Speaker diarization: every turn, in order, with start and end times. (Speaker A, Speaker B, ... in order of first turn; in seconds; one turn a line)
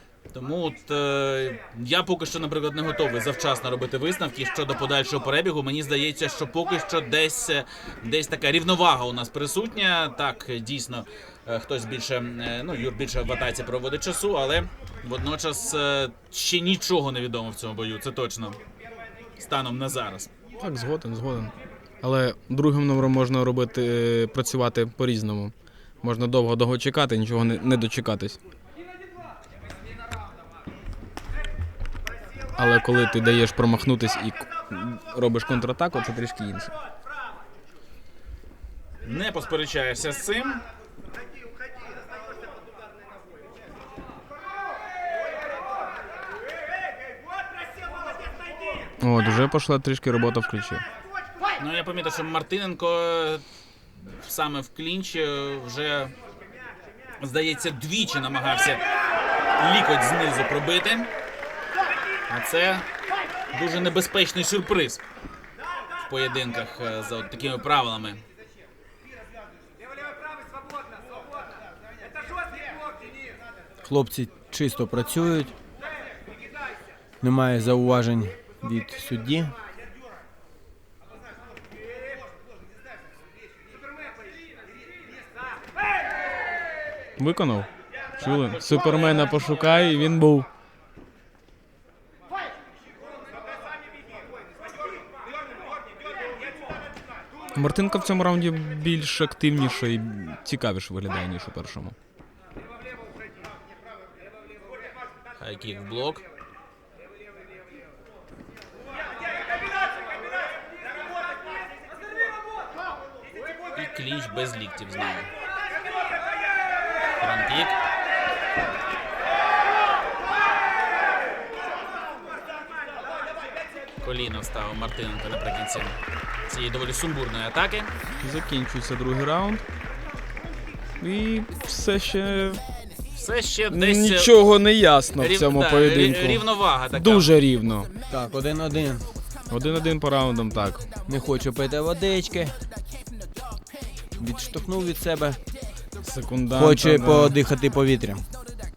Speaker A: 0.3-18.6
Speaker A: 19.4-20.3
Speaker B: 20.6-28.4
Speaker B: 32.6-36.7
Speaker A: 39.0-40.6
Speaker B: 49.0-50.8
Speaker A: 51.6-53.4
Speaker A: 54.0-56.1
Speaker A: 57.2-58.8
Speaker A: 59.6-61.1
Speaker A: 62.3-62.9
Speaker A: 63.5-65.0
Speaker A: 66.0-68.2
Speaker C: 73.8-75.5
Speaker C: 77.2-79.5
Speaker B: 87.2-90.5
Speaker A: 88.2-90.0
Speaker B: 97.5-102.0
Speaker A: 105.4-106.2
Speaker A: 113.8-115.3
Speaker A: 117.2-117.8
Speaker A: 124.0-126.0
Speaker A: 126.5-127.9
Speaker B: 128.2-129.6
Speaker B: 131.0-132.6
Speaker A: 133.1-134.3
Speaker B: 133.7-137.9
Speaker A: 135.2-137.3
Speaker C: 138.1-139.1
Speaker B: 139.5-140.9
Speaker C: 141.1-142.6
Speaker C: 144.2-145.4
Speaker B: 146.0-147.4
Speaker C: 146.5-148.2